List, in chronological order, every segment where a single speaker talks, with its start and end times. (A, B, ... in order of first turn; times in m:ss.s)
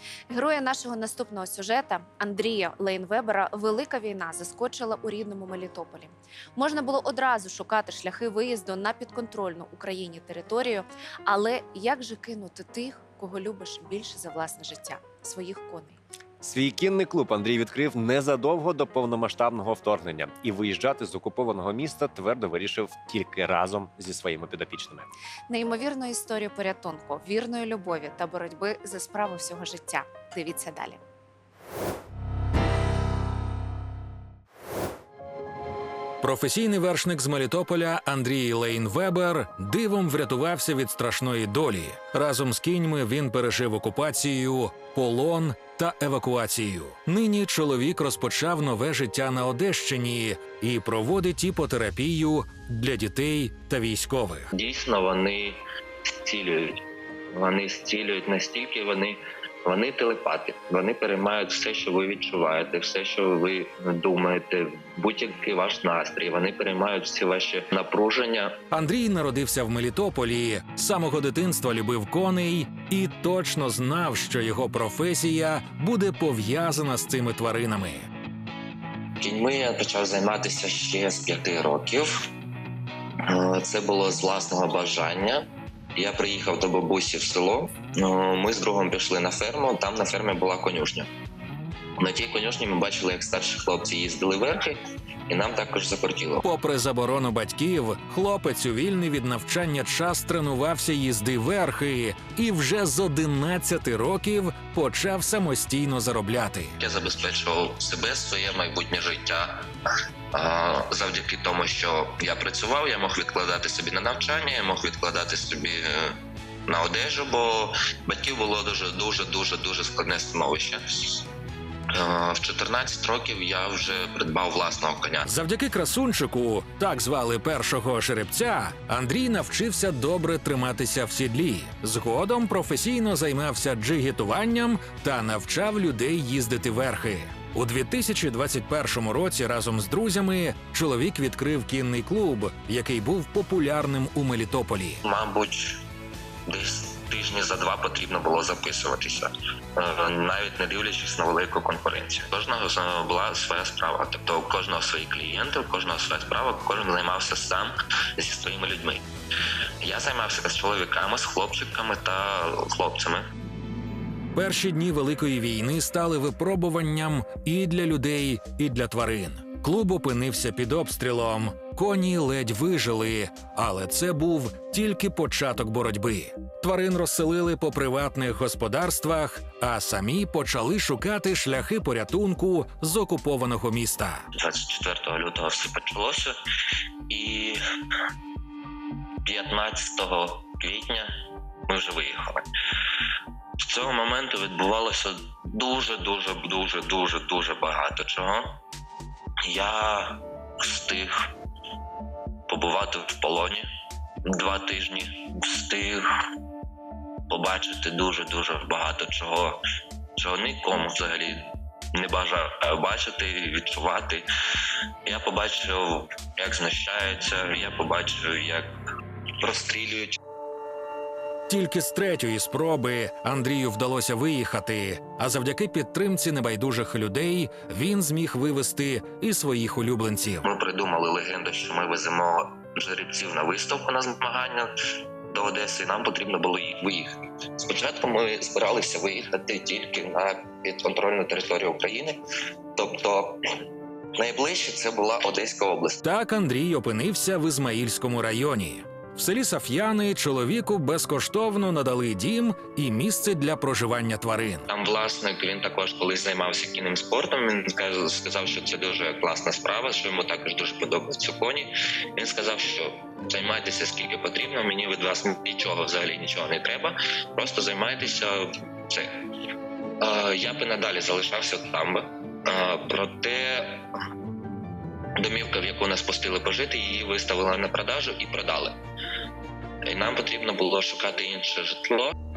0:00.3-0:16.0 A
0:16.4-0:25.1 B
0:25.5-0:31.0 A
0:36.2-0:54.5 C
0:54.5-0:55.6 D
0:56.2-1:08.5 D
1:08.7-1:18.1 C
1:19.2-1:22.3 D
1:23.3-1:25.4 D
1:26.0-1:31.1 D
1:32.0-1:36.4 D
1:36.4-1:46.7 C
1:46.8-1:49.6 D
1:50.3-2:01.2 D
2:01.9-2:05.3 D
2:05.2-2:25.0 C
2:25.0-2:25.8 D
2:26.5-2:39.0 D
2:39.8-2:43.3 D
2:44.3-3:04.3 C
3:04.3-3:06.3 D
3:07.1-3:07.6 D
3:09.2-3:11.1 D
3:11.7-3:12.4 D
3:13.6-3:18.5 D
3:19.5-3:21.3 D
3:22.5-3:23.7 D
3:24.3-3:26.1 D
3:27.3-3:29.6 D
3:30.2-3:31.4 D
3:31.9-3:38.7 D
3:39.4-3:40.2 D
3:41.5-3:50.5 C
3:50.4-3:54.7 D
3:55.3-4:02.2 D
4:02.8-4:03.4 D
4:04.2-4:06.0 D
4:06.0-4:14.7 C
4:14.7-4:29.1 D
4:30.0-4:33.8 D
4:35.2-4:38.8 D
4:39.8-4:42.1 D